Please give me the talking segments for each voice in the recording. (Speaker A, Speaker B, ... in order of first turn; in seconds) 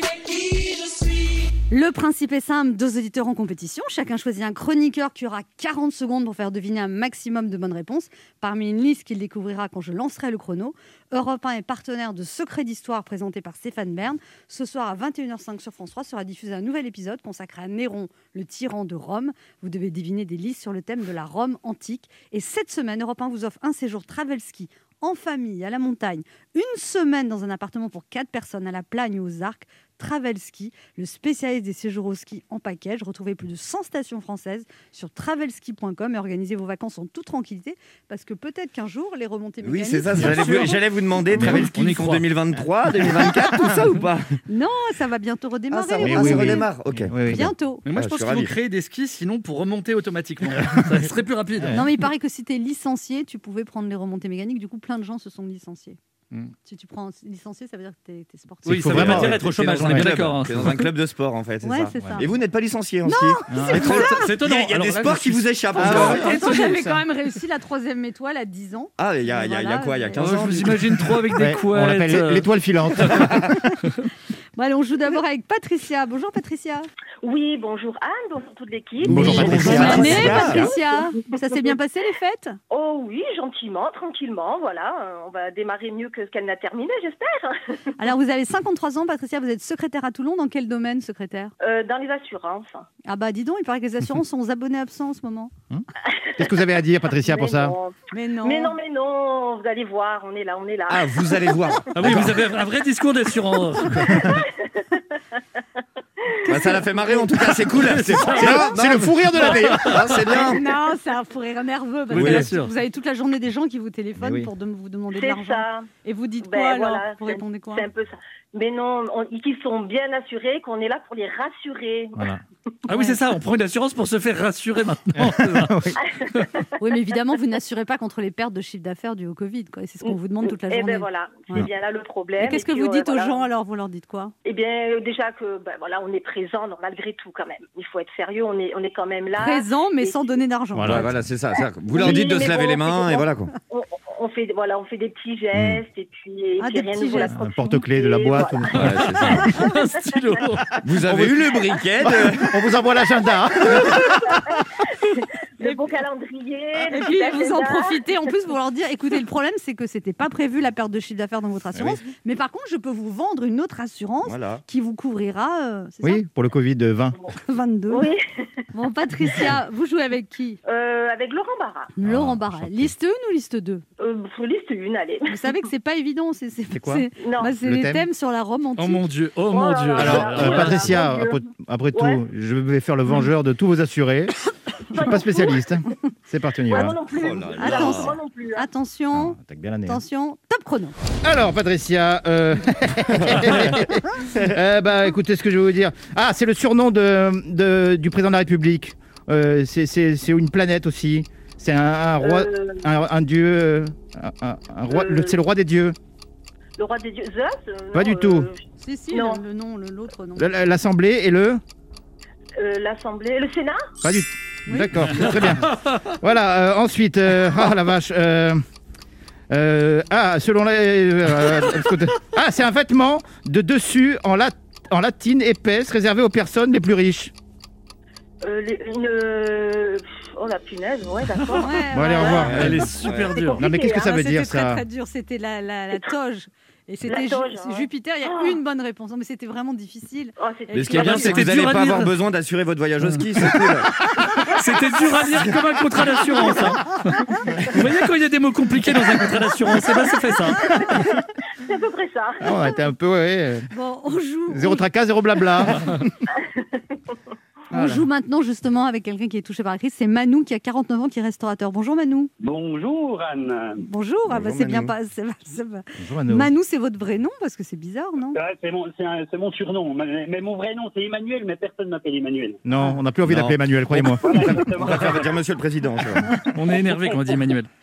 Speaker A: 1.7-40.8, 44.5-46.7, 47.2-47.8, 51.7-56.0, 56.6-59.0, 61.6-62.2, 63.0-64.3, 65.8-70.4, 74.5-76.9, 79.2-82.6, 88.0-91.5, 93.0-95.5, 98.1-98.8, 110.3-117.8, 126.8-131.7, 132.4-134.3, 139.3-141.1, 146.6-147.3, 156.9-166.2, 167.4-168.1, 168.7-170.6, 171.9-173.8, 175.3-179.1, 187.6-190.9, 208.8-210.5, 231.6-232.5, 233.8-241.2, 253.7-254.8, 257.7-262.3, 263.8-268.4, 272.8-273.0
Speaker B: 39.6-44.4, 45.7-48.5, 58.9-66.3, 69.0-71.0, 79.0-80.7, 100.9-102.4, 106.5-110.6, 112.1-112.5, 140.8-143.5, 148.7-149.5, 150.8-152.6, 164.2-164.6, 187.1-188.1, 232.4-233.3, 240.7-244.0, 264.3-264.9, 273.2-276.4
Speaker C: 40.1-40.6, 41.3-41.7, 46.0-47.5, 51.6-51.8, 58.7-60.1, 62.0-62.2, 63.5-63.8, 65.8-67.0, 71.3-73.7, 79.0-80.7, 96.4-97.8, 108.3-110.0, 114.2-114.5, 122.2-122.4, 125.1-126.0, 140.7-141.1, 147.3-149.5, 150.9-154.6, 161.7-162.0, 166.0-167.2, 172.0-172.9, 176.7-177.1, 177.6-178.0, 179.9-184.3, 184.9-187.0, 189.1-190.0, 191.2-205.9, 207.9-208.5, 210.4-211.6, 214.0-218.6, 219.5-227.3, 231.9-232.9, 233.6-234.8, 252.4-253.7, 254.5-256.1, 257.7-258.0, 266.0-266.5, 272.6-274.8
Speaker D: 41.5-42.2, 47.9-51.8, 58.6-60.9, 63.7-66.8, 70.2-72.5, 73.0-73.2, 101.9-104.3, 107.7-110.2, 112.1-112.7, 122.9-126.5, 148.8-150.7, 178.8-180.9, 215.1-216.0, 232.4-233.6, 241.0-242.1, 244.4-250.7, 276.5-277.7
Speaker E: 77.2-80.7, 82.7-87.9, 91.6-92.8, 97.2-101.5, 104.2-105.4, 106.2-106.7, 115.1-115.9, 116.4-122.2, 126.0-126.6, 130.0-133.4, 134.4-140.4, 141.9-148.7, 149.5-149.7, 153.7-158.0, 167.9-168.5, 170.7-171.9, 174.0-175.5, 177.2-177.5, 179.5-181.4, 181.9-182.2, 184.9-185.7, 186.7-188.7, 202.2-202.8, 204.9-205.3, 206.8-208.6, 209.1-209.4, 212.6-213.9, 228.4-232.5, 233.3-234.1, 237.0-238.6, 240.4-241.4, 250.7-251.1, 251.6-252.6
Speaker F: 262.4-263.8, 268.3-272.6, 274.2-275.4